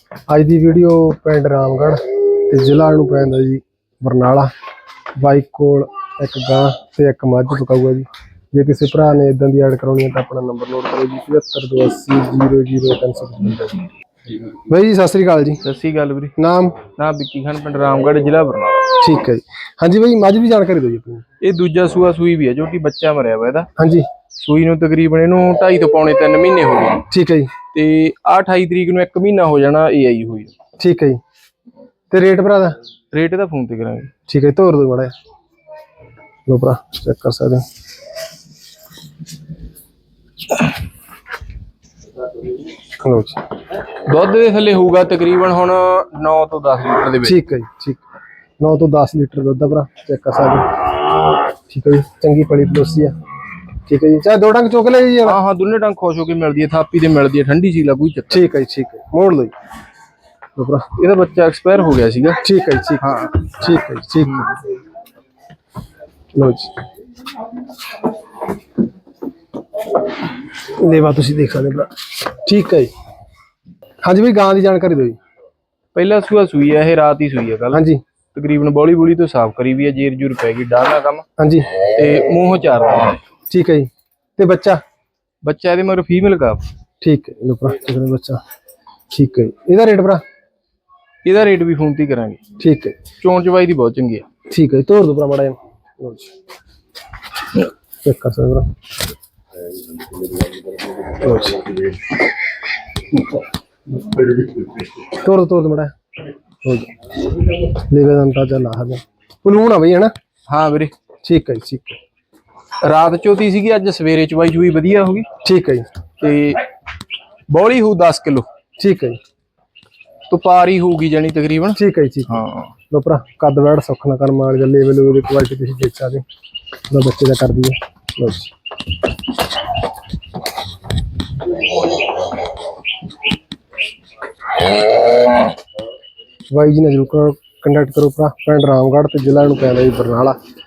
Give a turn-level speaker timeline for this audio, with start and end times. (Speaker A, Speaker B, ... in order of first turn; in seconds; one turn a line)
Speaker A: 0.3-4.5
Speaker A: 5.2-13.9
Speaker A: 14.5-15.6
Speaker B: 15.6-19.0
Speaker A: 16.4-16.8
Speaker A: 19.0-21.2
Speaker B: 21.4-23.7
Speaker A: 23.8-24.1
Speaker B: 24.4-27.1
Speaker A: 27.1-27.5
Speaker B: 27.7-30.5
Speaker A: 30.8-31.2
Speaker A: 32.1-32.8
Speaker B: 33.1-34.1
Speaker A: 34.3-35.1
Speaker A: 36.5-37.6
Speaker A: 43.0-43.4
Speaker B: 43.9-47.4
Speaker A: 47.2-48.0
Speaker A: 48.6-50.8
Speaker A: 51.7-53.2
Speaker A: 53.9-55.4
Speaker B: 55.2-58.5
Speaker A: 58.3-59.5
Speaker A: 60.6-60.9
Speaker B: 61.0-62.4
Speaker A: 62.4-64.6
Speaker B: 63.0-63.5
Speaker B: 64.2-64.5
Speaker A: 66.4-66.7
Speaker A: 70.7-72.9
Speaker A: 74.0-75.2
Speaker B: 76.0-81.2
Speaker A: 77.7-78.0
Speaker A: 81.4-81.7
Speaker B: 81.8-83.2
Speaker A: 83.5-84.8
Speaker B: 85.4-86.6
Speaker A: 87.0-88.4
Speaker A: 89.1-90.2
Speaker B: 91.2-92.4
Speaker A: 92.6-93.0
Speaker B: 93.2-94.3
Speaker A: 94.5-96.3
Speaker A: 98.0-98.7
Speaker A: 101.1-101.7
Speaker A: 105.0-105.9
Speaker A: 106.7-106.9
Speaker A: 107.6-110.1
Speaker B: 110.5-110.9
Speaker A: 111.2-112.0
Speaker B: 112.8-115.3
Speaker A: 115.4-115.9
Speaker B: 116.2-116.7
Speaker B: 117.5-118.5
Speaker A: 118.8-119.2
Speaker B: 120.3-122.7
Speaker A: 121.7-126.2
Speaker A: 126.9-128.5
Speaker A: 136.5-140.4